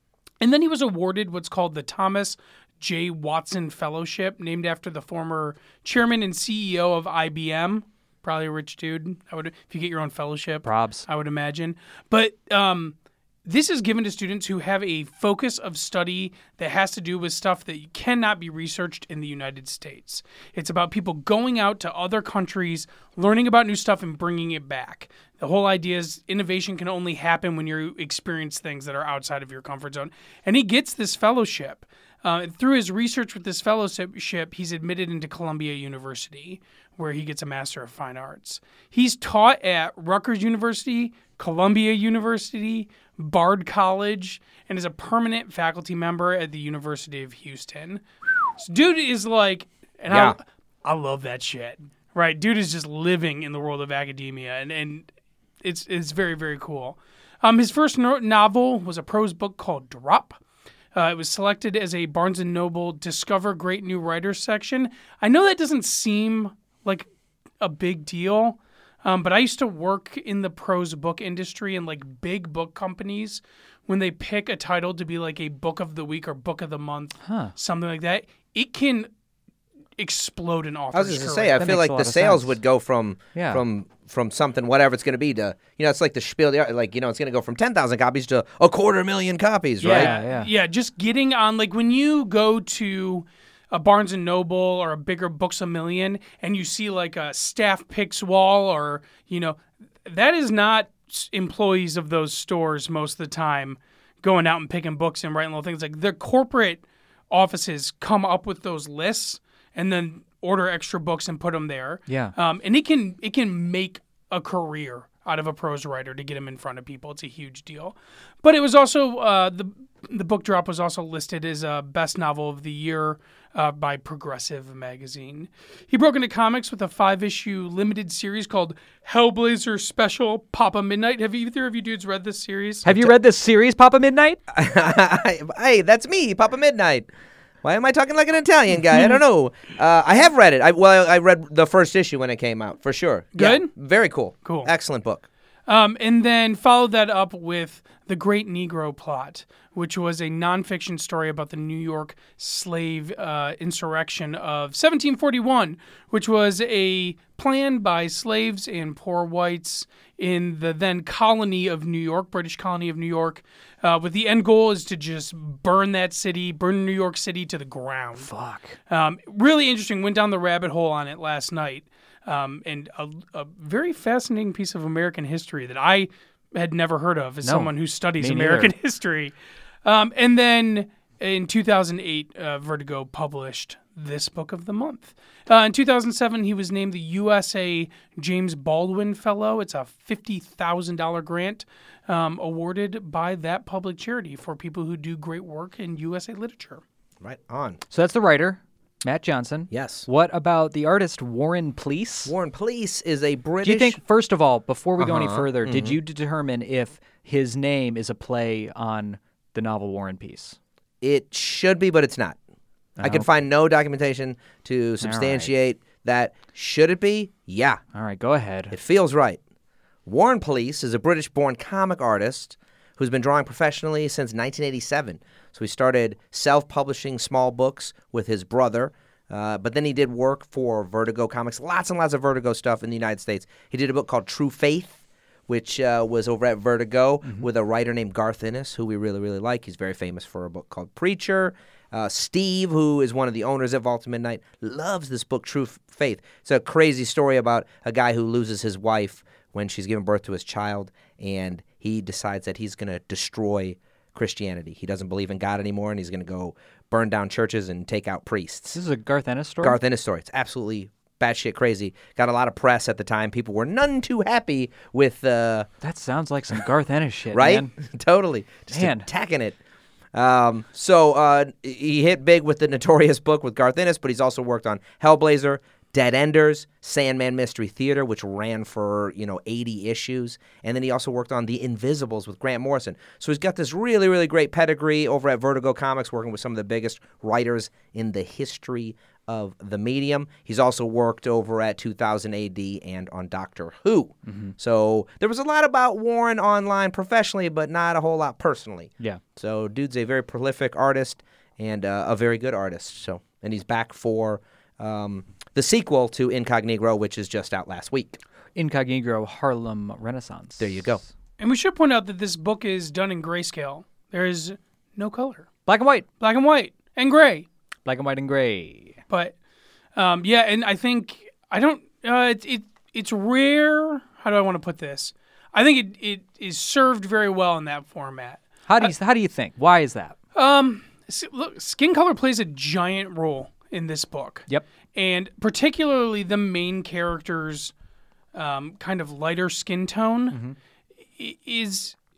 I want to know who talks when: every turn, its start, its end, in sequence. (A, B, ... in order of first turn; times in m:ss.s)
0:00.4-0:12.9 A
0:10.6-0:11.0 B
0:13.4-0:48.0 A
0:48.6-0:55.1 A
0:50.1-0:50.4 C
0:55.6-1:00.4 A
1:00.9-1:07.1 A
1:07.6-1:19.1 A
1:17.2-1:17.5 B
1:20.0-1:21.6 A
1:20.9-1:30.1 C
1:21.6-1:22.6 B
1:23.3-1:23.6 B
1:29.8-1:30.5 B
1:29.8-2:12.9 A
1:52.1-1:52.3 B
2:12.8-2:14.4 B
2:14.5-2:17.1 C
2:17.6-2:25.2 C
2:23.3-2:23.7 A
2:24.4-2:24.7 A
2:25.7-2:48.3 A
2:48.2-2:48.8 B
2:48.9-2:59.3 A
2:57.4-2:58.7 B
2:59.8-3:16.8 A
3:17.2-3:17.8 C
3:17.9-3:22.3 B
3:19.7-3:20.1 C
3:22.2-3:24.0 C
3:23.6-3:30.6 B
3:25.0-3:26.0 C
3:31.0-3:32.4 C
3:33.0-3:33.3 B
3:33.0-3:37.8 C
3:35.0-3:35.5 B
3:37.9-3:38.7 B
3:38.7-3:39.4 C
3:40.0-4:18.8 C
4:18.7-4:19.8 B
4:19.6-4:25.7 C
4:25.8-4:27.7 B
4:27.3-4:29.6 C
4:28.7-4:29.1 B
4:30.1-5:08.2 C
4:54.2-4:54.5 B
5:08.5-5:11.0 B
5:10.6-5:11.0 C
5:11.4-5:15.5 A
5:15.6-5:16.0 B
5:16.2-5:17.5 A
5:17.9-5:19.0 B
5:20.0-5:28.9 A
5:28.7-5:30.1 B
5:30.3-5:37.7 A
5:38.3-5:40.4 A
5:40.3-5:40.6 B
5:41.2-5:41.9 A